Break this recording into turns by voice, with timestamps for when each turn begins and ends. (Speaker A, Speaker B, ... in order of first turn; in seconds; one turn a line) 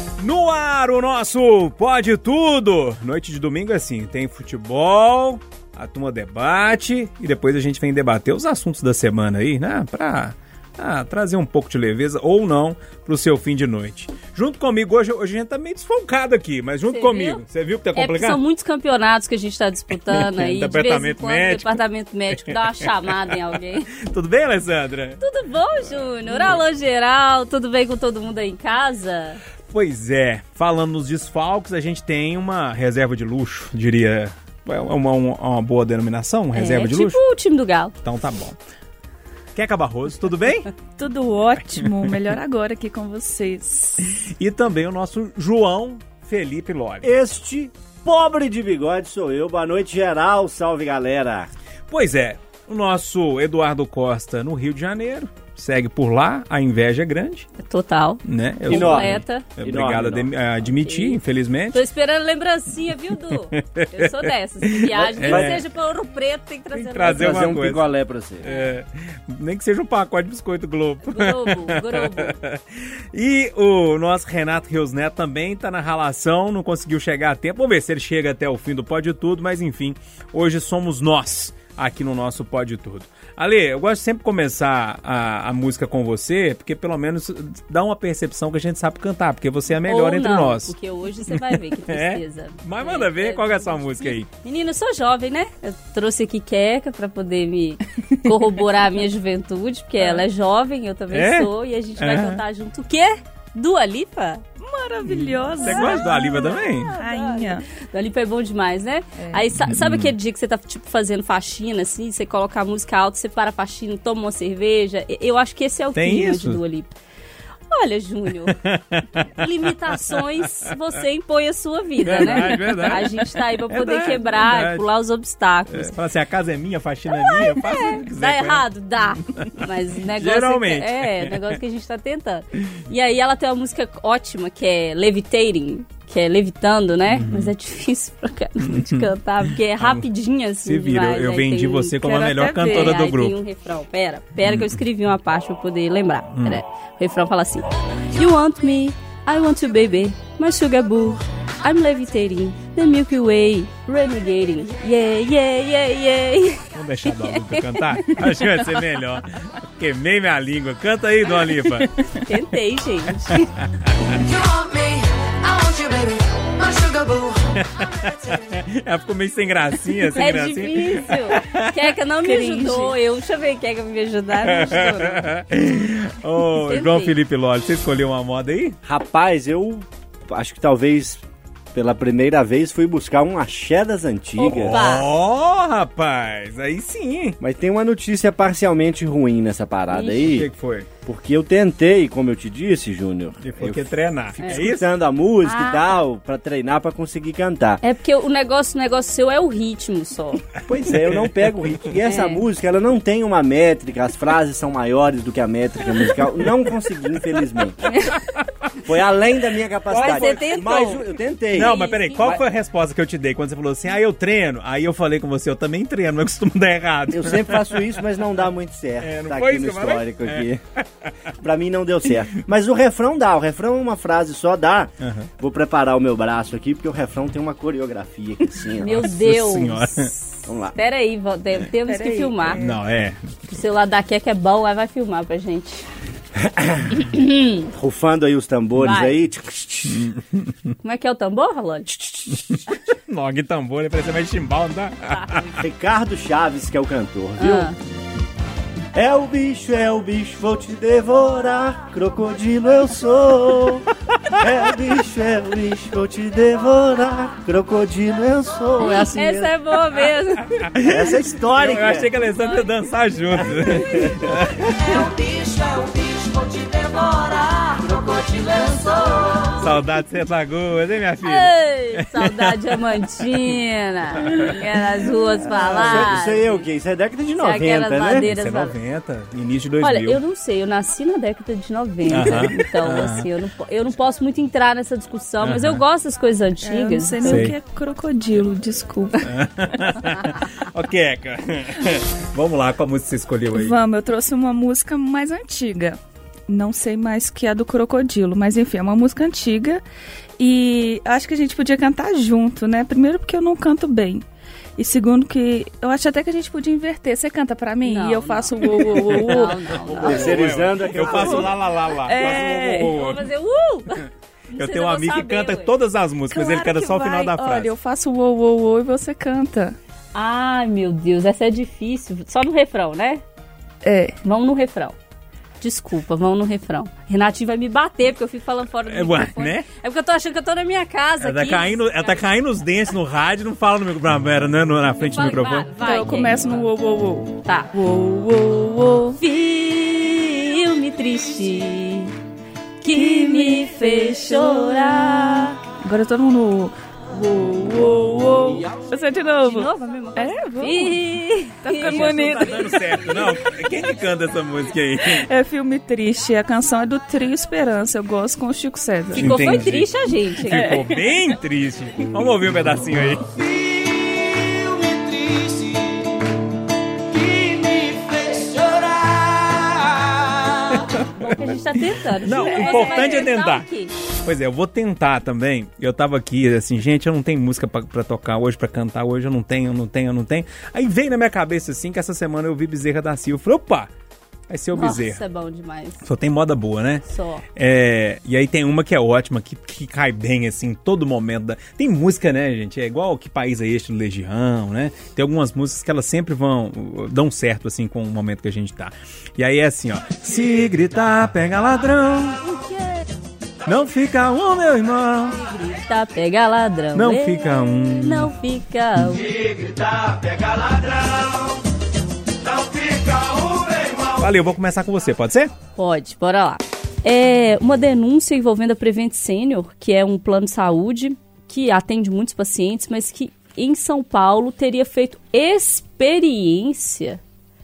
Speaker A: 0.2-18.4
Speaker B: 16.9-17.4
Speaker B: 18.0-23.9
Speaker A: 20.1-21.8
Speaker A: 22.4-23.3
Speaker A: 23.9-25.2
Speaker B: 25.2-29.4
Speaker A: 26.2-26.6
Speaker A: 29.7-37.2
Speaker B: 36.5-37.9
Speaker A: 38.0-38.6
Speaker A: 39.5-40.7
Speaker C: 41.0-44.2
Speaker A: 44.2-47.1
Speaker D: 47.0-51.5
Speaker A: 51.9-57.5
Speaker B: 57.6-59.5
Speaker A: 58.2-61.8
Speaker D: 58.7-60.3
Speaker B: 60.9-61.2
Speaker B: 61.7-67.6
Speaker A: 63.5-65.6
Speaker D: 65.2-65.6
Speaker A: 66.7-67.9
Speaker D: 67.0-68.5
Speaker A: 68.4-90.7
Speaker B: 68.4-68.7
Speaker B: 71.0-72.4
Speaker B: 89.9-104.4
Speaker A: 91.3-94.3
Speaker A: 101.1-102.4
Speaker C: 104.6-107.7
Speaker A: 105.0-106.9
Speaker B: 105.6-116.9
Speaker C: 109.2-109.4
Speaker A: 109.6-110.1
Speaker A: 116.0-116.6
Speaker B: 117.7-118.6
Speaker A: 118.5-120.7
Speaker B: 119.4-125.9
Speaker A: 122.0-124.8
Speaker A: 125.7-128.7
Speaker B: 127.1-158.2
Speaker A: 129.3-131.6
Speaker A: 137.1-137.5
Speaker A: 138.6-140.1
Speaker A: 140.6-143.4
Speaker C: 142.0-143.0
Speaker A: 144.4-144.8
Speaker A: 146.3-146.6
Speaker A: 156.7-162.0
Speaker B: 162.2-163.5
Speaker E: 164.1-168.3
Speaker A: 167.6-171.7
Speaker B: 170.2-175.3
Speaker C: 172.2-172.9
Speaker A: 174.4-178.8
Speaker B: 176.4-177.2
Speaker D: 178.8-184.9
Speaker A: 184.4-187.4
Speaker B: 184.7-185.1
Speaker D: 187.4-190.5
Speaker A: 190.1-190.9
Speaker D: 191.1-197.8
Speaker A: 193.4-194.9
Speaker B: 195.4-195.9
Speaker B: 197.8-200.4
Speaker A: 200.7-201.9
Speaker D: 200.7-207.9
Speaker B: 202.0-202.4
Speaker B: 207.8-208.3
Speaker D: 208.8-212.4
Speaker A: 209.9-210.8
Speaker B: 209.9-211.0
Speaker A: 211.5-217.8
Speaker B: 211.6-212.4
Speaker D: 217.1-220.6
Speaker A: 219.0-221.1
Speaker D: 221.4-229.1
Speaker A: 225.0-225.3
Speaker B: 228.8-232.6
Speaker A: 229.1-230.1
Speaker D: 230.5-230.8
Speaker C: 231.8-232.8
Speaker A: 232.6-233.4
Speaker B: 233.5-235.9
Speaker D: 236.4-237.0
Speaker B: 236.9-237.7
Speaker D: 237.7-240.1
Speaker B: 238.8-239.1
Speaker A: 239.9-240.4
Speaker B: 240.8-241.9
Speaker D: 242.0-242.3
Speaker A: 242.3-245.5
Speaker B: 245.1-245.4
Speaker D: 245.6-247.7
Speaker B: 247.4-247.8
Speaker D: 248.9-259.5
Speaker B: 258.8-260.9
Speaker A: 260.6-264.6
Speaker D: 260.8-262.1
Speaker B: 262.4-262.7
Speaker B: 263.7-264.2
Speaker E: 264.6-269.8
Speaker A: 269.6-272.6
Speaker B: 271.2-276.7
Speaker A: 274.2-274.6
Speaker D: 275.5-278.3
Speaker A: 275.8-276.1
Speaker B: 277.4-278.8
Speaker A: 278.2-280.2
Speaker B: 279.8-287.5
Speaker A: 282.1-283.3
Speaker A: 285.4-285.8
Speaker C: 286.6-289.9
Speaker A: 287.2-287.6
Speaker A: 289.2-293.8
Speaker C: 293.6-299.8
Speaker C: 300.4-304.2
Speaker C: 304.8-310.3
Speaker B: 307.9-310.3
Speaker A: 309.3-313.3
Speaker D: 309.9-311.6
Speaker C: 311.1-312.9
Speaker B: 312.1-315.7
Speaker A: 314.0-317.7
Speaker C: 316.3-319.8
Speaker B: 320.1-323.2
Speaker C: 323.8-324.2
Speaker B: 324.2-325.0
Speaker B: 325.6-332.2
Speaker A: 328.8-329.7
Speaker A: 331.2-335.7
Speaker B: 335.0-336.7
Speaker C: 335.8-339.2
Speaker B: 337.4-337.7
Speaker B: 339.2-342.1
Speaker B: 342.8-345.6
Speaker C: 342.8-351.0
Speaker B: 349.4-353.2
Speaker C: 351.6-353.5
Speaker A: 351.8-355.3
Speaker C: 355.0-359.6
Speaker B: 359.1-360.9
Speaker A: 359.1-363.3
Speaker E: 363.6-365.8
Speaker E: 367.1-370.8
Speaker B: 371.1-373.9
Speaker A: 372.2-383.9
Speaker C: 372.5-373.0
Speaker A: 384.5-385.2
Speaker B: 384.7-386.1
Speaker A: 386.0-387.1
Speaker B: 387.1-387.4
Speaker A: 387.6-402.4
Speaker B: 402.4-403.1
Speaker A: 403.6-405.4
Speaker B: 405.3-409.3
Speaker A: 406.9-408.3
Speaker A: 414.0-415.5
Speaker B: 415.8-427.2